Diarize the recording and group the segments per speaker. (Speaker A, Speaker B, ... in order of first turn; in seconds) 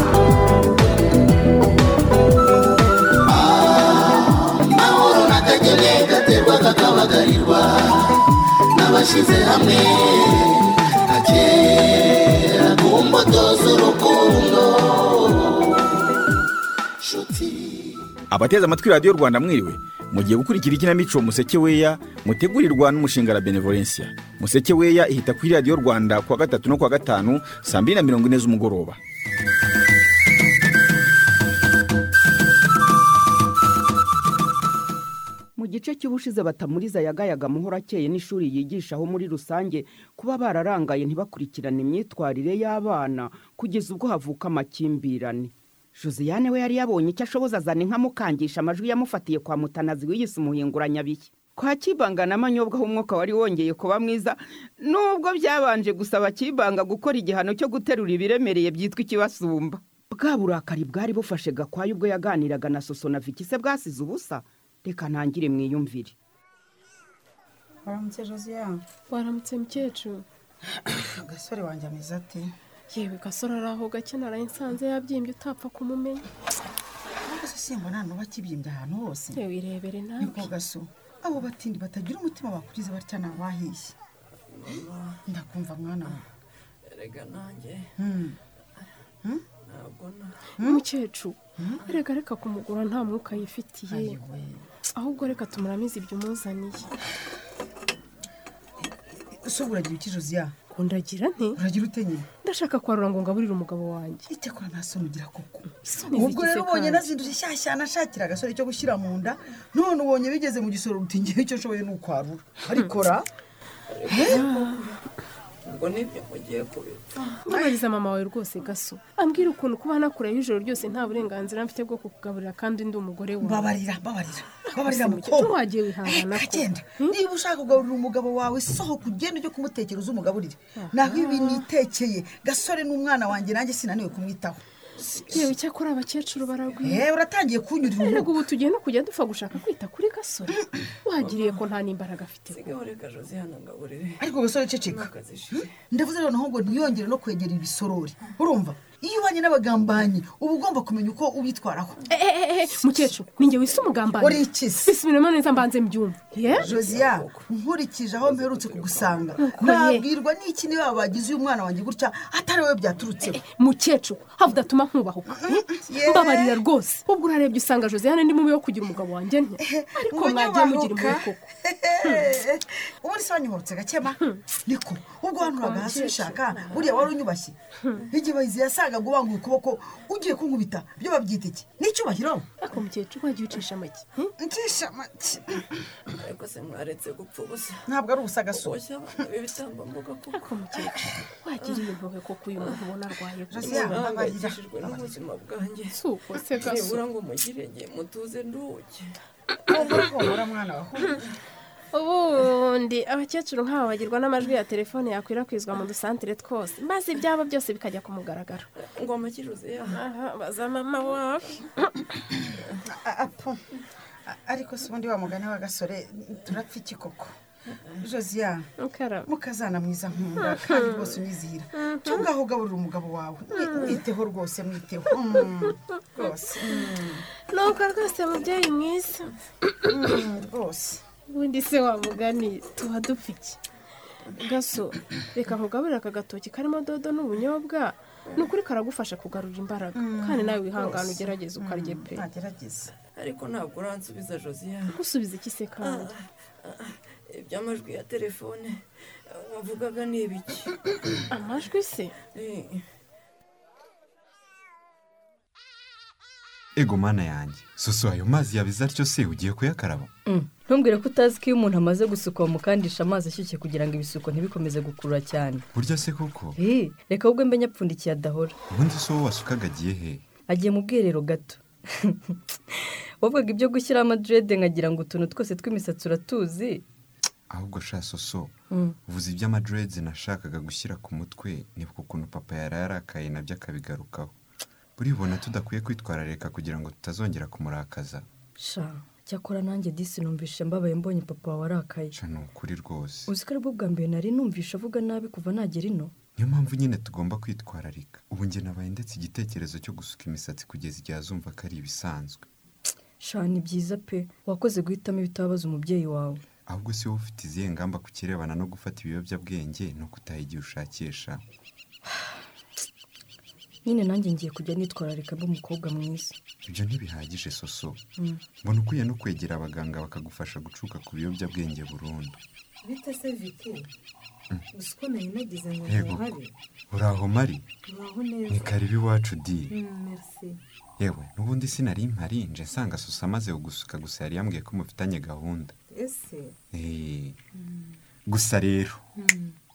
Speaker A: 3.3-8.2, 8.8-15.8, 17.0-17.9
Speaker B: 18.3-29.0
Speaker C: 35.6-45.5, 46.0-54.4, 54.9-66.1
Speaker D: 67.9-68.8, 70.7-72.5, 77.2-79.4, 80.2-83.9, 85.3-86.2, 88.0-88.4, 91.6-91.8, 93.9-94.6, 99.4-100.5, 101.5-102.3, 104.3-113.3, 114.1-114.7, 117.5-117.8, 123.4-134.6, 136.8-138.4, 144.2-152.0, 154.2-154.9, 156.6-163.4, 165.3-166.6, 169.6-177.6, 178.1-182.5, 184.4-185.6, 187.9-188.8, 193.5-195.2, 199.7-201.2, 212.9-213.6, 214.3-217.3, 218.0-218.7, 219.2-227.2, 229.9-231.0, 239.9-242.9
Speaker E: 69.1-70.3, 72.9-76.2, 79.3-80.5, 90.7-94.2, 95.0-96.9, 100.7-101.6, 102.4-104.3, 105.9-107.1, 117.5-123.7, 124.7-127.2, 130.8-131.7, 135.1-137.1, 137.9-142.7, 152.1-156.8, 159.4-160.1, 163.3-171.4, 175.4-177.0, 182.6-184.3, 190.3-193.9, 195.9-197.0, 201.9-208.7, 209.9-211.6, 218.8-219.3, 226.2-226.8, 227.5-229.3, 231.3-233.6, 234.4-242.2, 244.9-246.1, 251.3-252.1
Speaker F: 84.5-85.2, 86.9-87.9, 89.7-90.4, 113.9-115.0, 115.7-117.3, 141.2-141.7, 142.5-145.8, 186.2-187.9, 188.5-190.6, 191.6-191.9, 193.6-196.0, 196.6-199.1, 208.8-210.0, 243.1-245.0, 245.8-250.8, 252.3-252.8
Speaker G: 256.8-260.1, 265.7-266.6, 268.7-270.2, 277.5-278.5, 279.1-284.3, 285.0-288.3, 292.1-293.3, 296.4-302.5, 306.7-311.4, 316.6-318.0, 318.6-322.4, 325.9-326.3, 326.9-327.6, 328.5-329.7, 331.0-335.8, 336.7-337.4, 338.3-339.0
Speaker H: 260.3-265.7, 266.6-268.6, 270.5-276.8, 278.7-279.0, 288.6-292.1, 293.3-296.1, 303.2-306.4, 313.9-316.4
Speaker I: 322.8-323.9, 324.7-326.5, 327.9-328.7, 329.7-330.6, 335.9-336.6, 337.6-338.0, 339.2-339.6